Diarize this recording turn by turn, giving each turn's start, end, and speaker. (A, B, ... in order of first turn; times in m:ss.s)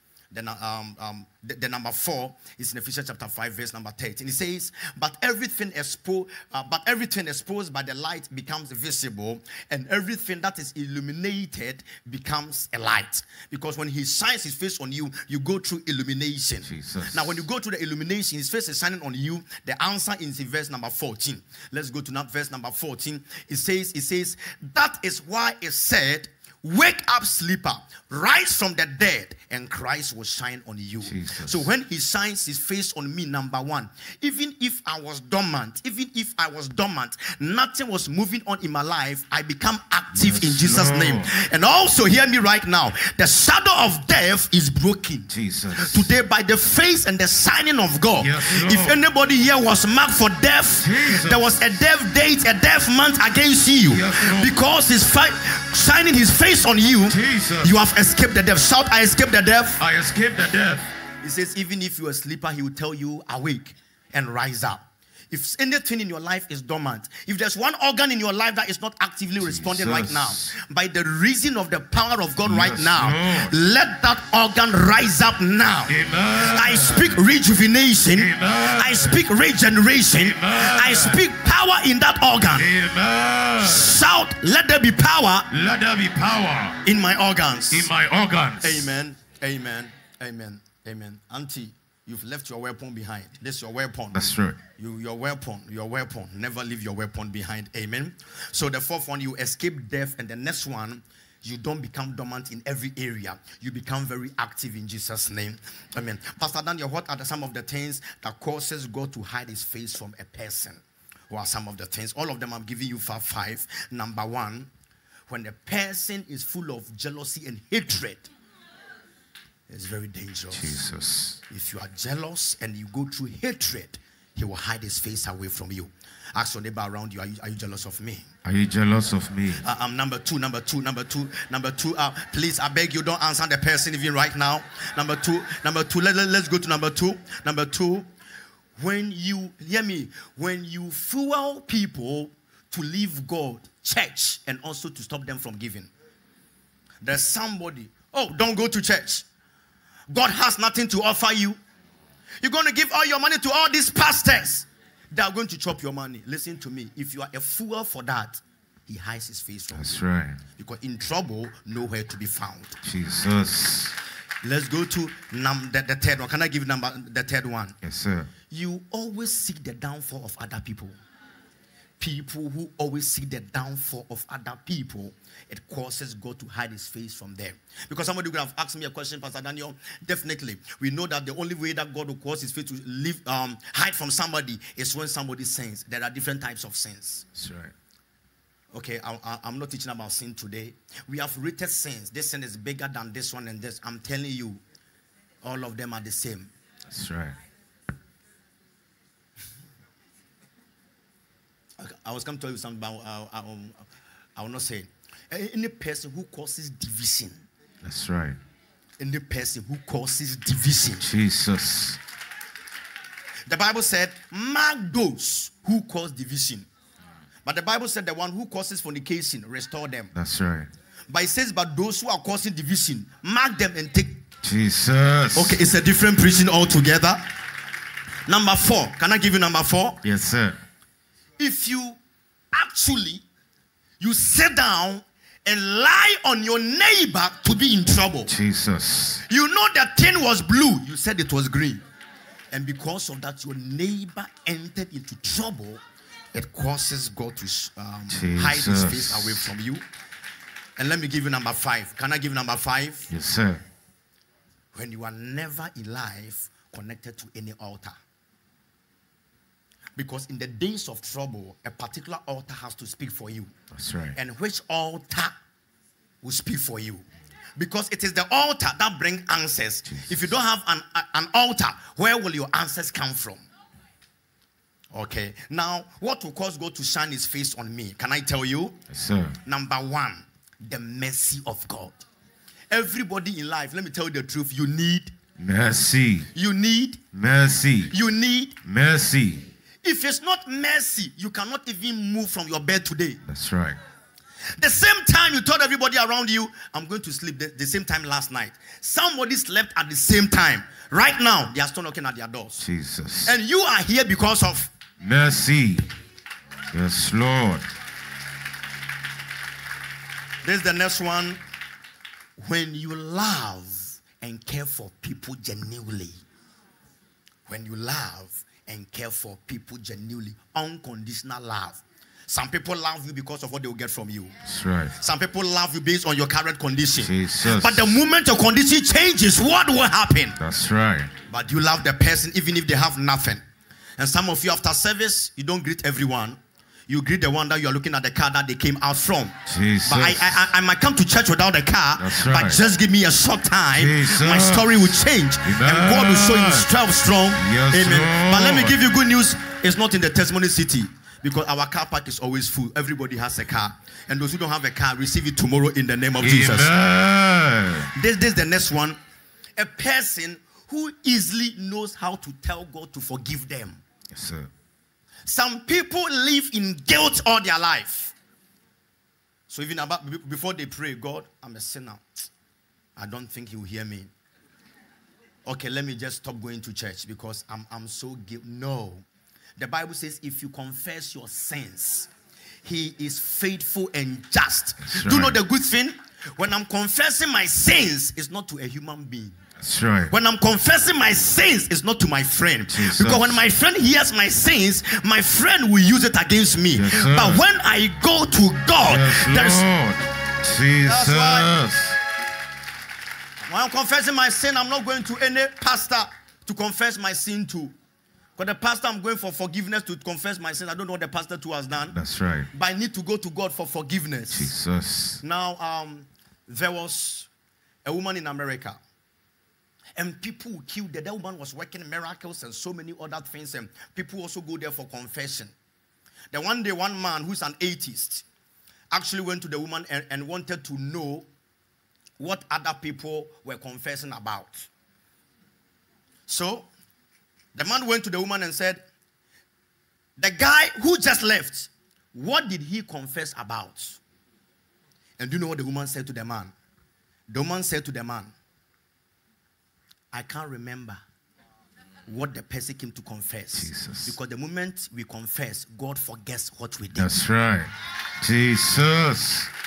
0:00.3-0:59.8 A
0:16.6-0:17.4 B
0:31.0-0:31.7 B
0:40.1-0:41.3 B
0:45.3-0:46.1 B
0:48.2-0:49.0 B
0:50.8-0:51.4 B
0:53.9-0:54.6 B
0:57.1-0:57.7 B
0:59.8-1:00.8 B
1:01.2-1:22.7 A
1:09.4-1:10.5 B
1:12.4-1:13.5 B
1:15.9-1:17.2 B
1:18.1-1:19.2 B
1:20.2-1:21.2 B
1:22.5-1:24.0 B
1:23.6-1:25.5 A
1:25.5-1:26.8 B
1:26.8-1:27.9 A
1:27.7-1:28.9 B
1:28.6-1:34.2 A
1:34.1-1:34.6 B
1:34.8-1:54.7 A
1:55.3-1:58.3 A
1:59.7-2:00.8 A
2:00.5-2:01.4 B
2:01.5-2:08.3 A
2:08.4-2:09.6 B
2:09.6-2:18.1 A
2:18.8-2:25.9 A
2:27.0-2:29.2 A
2:30.1-2:31.6 A
2:32.4-2:40.0 A
2:39.7-2:40.4 B
2:40.6-2:42.8 A
2:42.8-2:43.9 B
2:44.4-2:47.8 A
2:47.8-2:48.3 B
2:48.5-2:51.0 A
2:52.0-3:07.2 A
3:07.3-3:07.7 B
3:08.7-3:14.6 A
3:15.4-3:16.5 A
3:16.9-3:17.4 B
3:21.8-3:27.4 A
3:27.8-3:28.4 B
3:29.0-3:31.1 A
3:31.0-3:32.0 B
3:33.5-3:36.7 A
3:37.4-3:40.1 A
3:40.1-3:40.7 B
3:41.1-3:44.2 A
3:44.4-3:45.6 B
3:45.3-3:47.2 A
3:48.3-3:50.0 A
3:50.0-3:50.6 B
3:51.4-3:52.0 A
3:52.5-3:53.2 A
3:54.0-3:58.3 A
3:58.3-3:59.2 B
3:59.2-4:01.8 A
4:02.5-4:05.8 A
4:06.3-4:09.8 A
4:08.1-4:09.5 B
4:10.8-4:13.1 A
4:13.1-4:13.6 B
4:14.7-4:18.0 A
4:20.0-4:23.5 A
4:23.7-4:24.2 B
4:24.1-4:25.3 A
4:26.2-4:33.4 A
4:34.9-4:38.8 A
4:38.9-4:39.4 B
4:39.4-4:42.0 A
4:42.7-4:45.1 A
4:45.4-4:46.3 B
4:46.3-4:47.0 A
4:47.1-4:47.9 B
4:47.9-4:48.6 A
4:48.6-4:49.5 B
4:49.8-4:53.2 A
4:53.3-4:53.8 B
4:54.6-5:02.6 A
5:02.6-5:03.3 B
5:03.2-5:04.7 A
5:05.0-5:05.9 B
5:06.7-5:07.7 B
5:10.4-5:11.4 A
5:12.4-5:16.2 A
5:17.5-5:24.4 A
5:24.4-5:25.0 B
5:25.0-5:30.4 A
5:27.0-5:28.0 B
5:30.4-5:31.1 B
5:31.3-5:33.4 A
5:34.0-5:56.7 A
5:39.4-5:40.5 B
5:42.0-5:42.6 B
5:43.7-5:46.7 B
5:47.3-5:48.8 B
5:56.2-5:57.9 B
5:57.9-5:59.0 A
5:59.6-6:03.8 A
6:04.1-6:04.5 B
6:05.2-6:08.1 A
6:09.5-6:12.3 A
6:13.0-6:14.1 A
6:15.4-6:19.0 A
6:19.6-6:22.1 A
6:22.6-6:29.4 A
6:24.8-6:25.4 B
6:29.6-6:30.1 B
6:30.1-6:39.6 A
6:32.7-6:33.4 B
6:36.7-6:37.4 B
6:38.8-6:42.0 B
6:40.8-6:41.5 A
6:43.5-6:47.7 A
6:48.4-6:52.0 A
6:51.9-6:52.5 B
6:52.5-6:54.5 A
6:54.3-6:55.2 B
6:55.2-6:57.3 A
6:57.8-6:58.8 A
7:00.0-7:05.5 A
7:06.3-7:08.2 A
7:08.9-7:11.3 A
7:12.2-7:14.7 A
7:16.3-7:16.7 A
7:17.5-7:18.8 A
7:20.2-7:24.0 A
7:25.2-7:26.5 A
7:27.3-7:28.3 A
7:30.1-7:31.0 A
7:32.0-7:37.1 A
7:33.5-7:34.1 B
7:37.0-7:39.5 B